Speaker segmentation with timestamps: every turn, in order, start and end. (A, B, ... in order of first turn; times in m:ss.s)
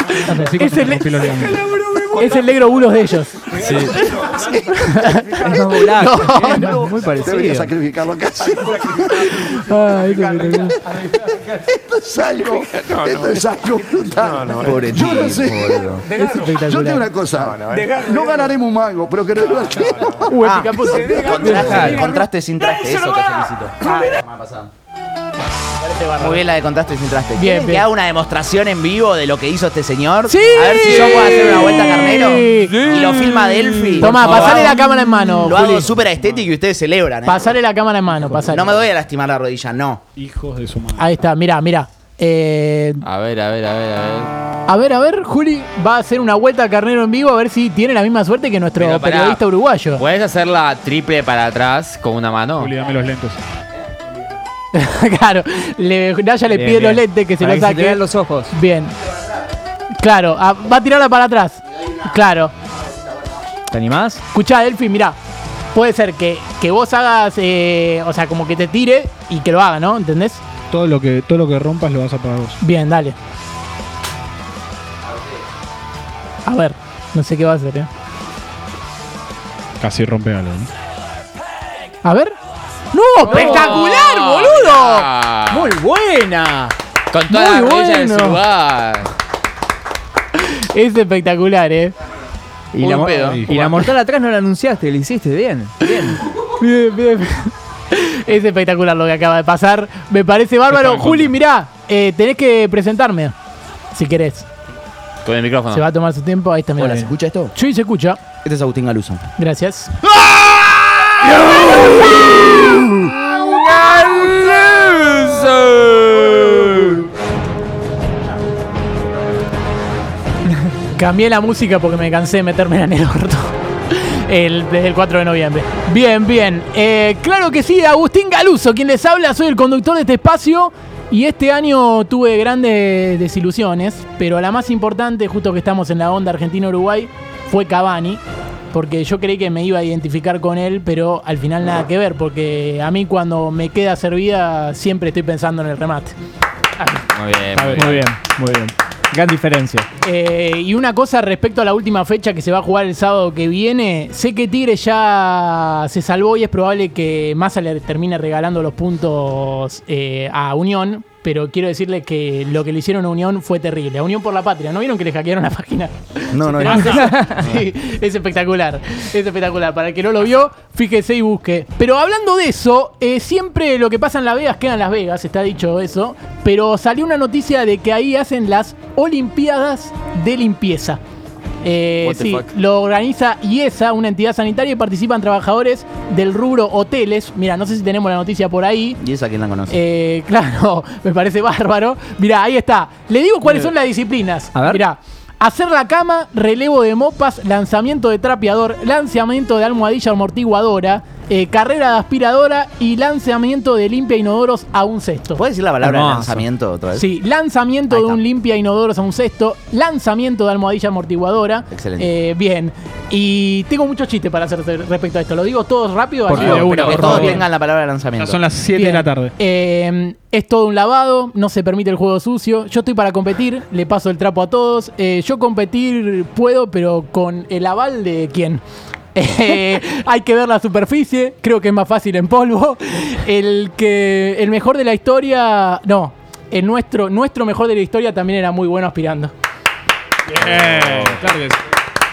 0:00.2-0:01.7 A
0:00.3-0:00.6 B
0:00.5-0:01.3 C
0:02.1-0:03.5 C
0:03.6-0:04.0 D
0:04.2-0:06.8 C
0:05.4-0:07.7 B
0:06.4-0:09.6 E
0:09.3-0:10.8 C
0:10.9-0:21.4 E
0:14.6-0:16.0 F
0:16.1-0:17.1 C
0:20.3-0:22.0 C
0:20.4-0:24.7 F
0:21.4-0:22.2 B
0:23.9-0:24.1 C
0:25.8-0:26.4 C
0:26.2-0:34.8 F
0:27.4-0:27.8 C
0:30.3-0:32.7 C
0:32.8-0:34.2 D
0:34.0-0:35.9 C
0:35.4-0:37.6 F
0:37.3-0:38.7 C
0:38.5-0:40.0 F
0:40.2-0:41.1 A
0:41.0-0:43.0 C
0:43.0-0:44.3 D
0:44.7-0:50.0 C
0:48.8-0:49.4 D
0:50.0-0:52.7 D
0:52.6-0:53.4 A
0:54.7-0:58.9 C
0:56.5-0:58.5 B
1:00.0-1:02.5 C
1:03.7-1:04.2 B
1:04.3-1:05.2 C
1:05.7-1:10.4 C
1:10.7-1:12.6 A
1:12.6-1:13.2 C
1:16.5-1:17.9 C
1:19.8-1:20.7 A
1:22.0-1:22.4 C
1:22.9-1:25.1 C
1:23.2-1:25.8 D
1:23.3-1:23.8 B
1:25.5-1:26.7 B
1:27.1-1:29.1 D
1:27.3-1:28.4 C
1:30.4-1:31.9 C
1:32.7-1:36.2 B
1:32.8-1:33.7 D
1:36.4-1:43.4 C
1:40.9-1:41.3 A
1:43.9-1:44.5 C
1:45.2-1:45.8 D
1:45.7-1:48.2 C
1:46.8-1:47.5 F
1:48.4-1:49.2 F
1:49.4-1:50.0 C
1:50.3-1:57.0 D
2:01.0-2:18.2 C
2:18.7-2:26.2 C
2:26.8-2:27.1 C
2:27.1-2:28.1 D
2:27.5-2:29.9 B
2:30.0-3:01.0 C
2:46.3-2:47.3 F
2:46.8-2:47.5 B
3:01.6-3:09.0 C
3:02.0-3:02.4 D
3:09.0-3:09.8 F
3:09.7-3:25.4 C
3:14.6-3:14.8 B
3:25.4-3:27.1 F
3:25.8-3:26.4 B
3:26.9-3:37.4 C
3:27.9-3:28.2 F
3:31.7-3:32.1 F
3:36.3-3:37.4 A
3:36.4-3:38.4 F
3:36.4-3:37.0 D
3:38.2-3:39.3 A
3:38.7-3:48.6 C
3:49.2-3:59.3 C
4:00.3-4:01.6 A
4:00.4-4:01.3 D